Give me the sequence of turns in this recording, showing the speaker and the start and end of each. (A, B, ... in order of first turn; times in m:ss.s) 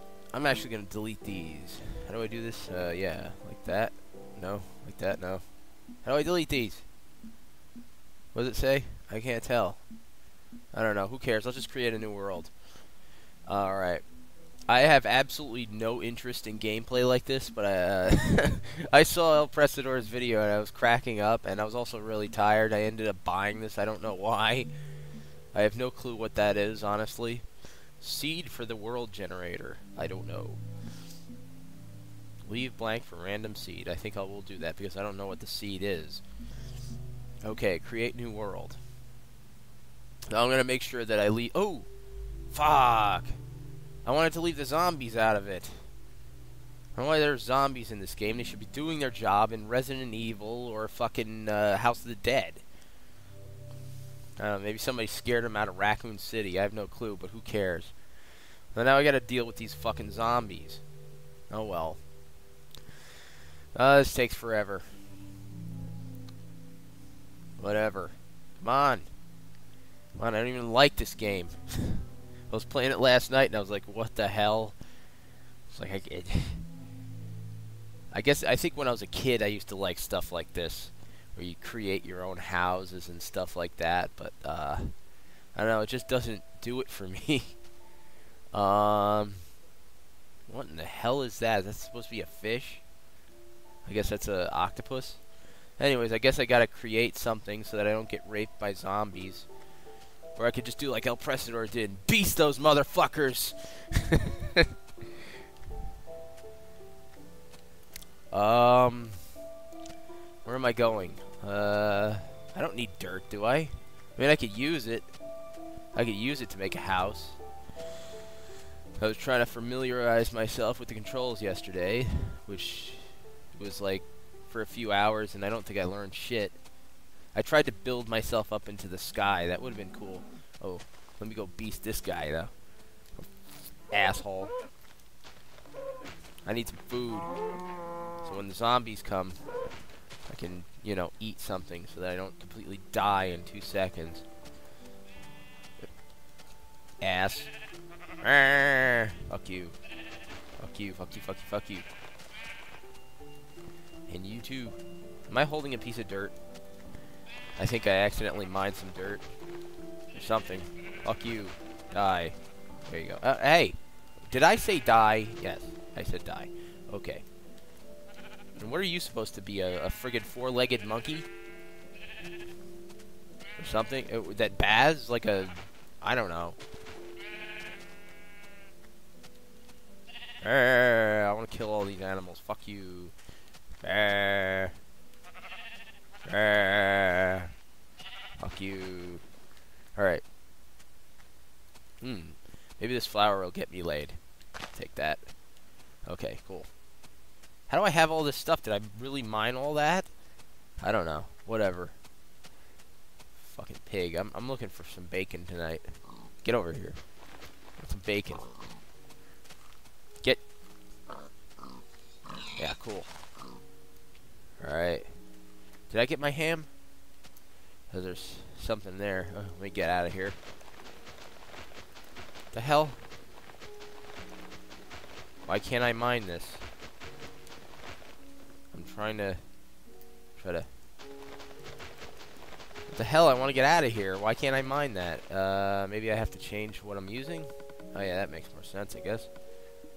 0:00.3-0:05.4 A
0:06.0-0:06.8 A
0:08.3-0:09.8 A
0:10.7-0:12.5 A
0:13.4-0:14.0 A
0:14.7-0:24.7 A
0:25.5-0:27.5 A
0:28.0-0:30.6 A
0:32.4-0:36.2 A
0:37.4-0:38.8 A
0:40.3-0:41.9 A
0:42.5-0:43.4 A
0:44.0-0:45.8 A
0:47.0-0:52.6 A
0:54.4-0:58.0 A
0:58.7-1:00.8 A
1:01.5-1:02.0 A
1:03.7-1:04.8 A
1:07.6-1:09.1 A
1:10.2-1:14.8 A
1:15.7-1:16.7 A
1:18.1-1:24.9 A
1:25.5-1:27.6 A
1:28.5-1:29.5 A
1:30.5-1:32.8 A
1:33.8-1:35.2 A
1:35.8-1:39.5 A
1:40.4-1:44.7 A
1:48.3-1:49.2 A
1:50.4-1:55.1 A
1:55.9-1:57.4 A
1:59.0-2:06.6 A
2:07.3-2:12.5 A
2:13.9-2:14.5 A
2:16.4-2:17.3 A
2:18.2-2:19.4 A
2:20.2-2:24.3 A
2:27.0-2:27.5 A
2:28.2-2:29.8 A
2:30.6-2:31.9 A
2:34.1-2:36.4 A
2:37.6-2:39.3 A
2:40.1-2:43.8 A
2:44.3-2:47.2 A
2:48.6-2:51.3 A
2:53.6-2:56.6 A
3:00.4-3:03.2 A
3:03.8-3:04.8 A
3:06.2-3:07.5 A
3:08.4-3:09.2 A
3:10.0-3:10.2 A
3:12.0-3:14.2 A
3:14.7-3:15.3 A
3:16.0-3:16.7 A
3:17.7-3:20.1 A
3:20.8-3:22.0 A
3:23.4-3:27.0 A
3:27.8-3:28.5 A
3:32.6-3:33.1 A
3:34.6-3:35.1 A
3:35.9-3:36.7 A
3:37.9-3:40.4 A
3:42.5-3:43.0 A
3:45.5-3:46.6 A
3:48.7-3:49.4 A
3:50.4-3:50.7 A
3:52.9-3:59.3 A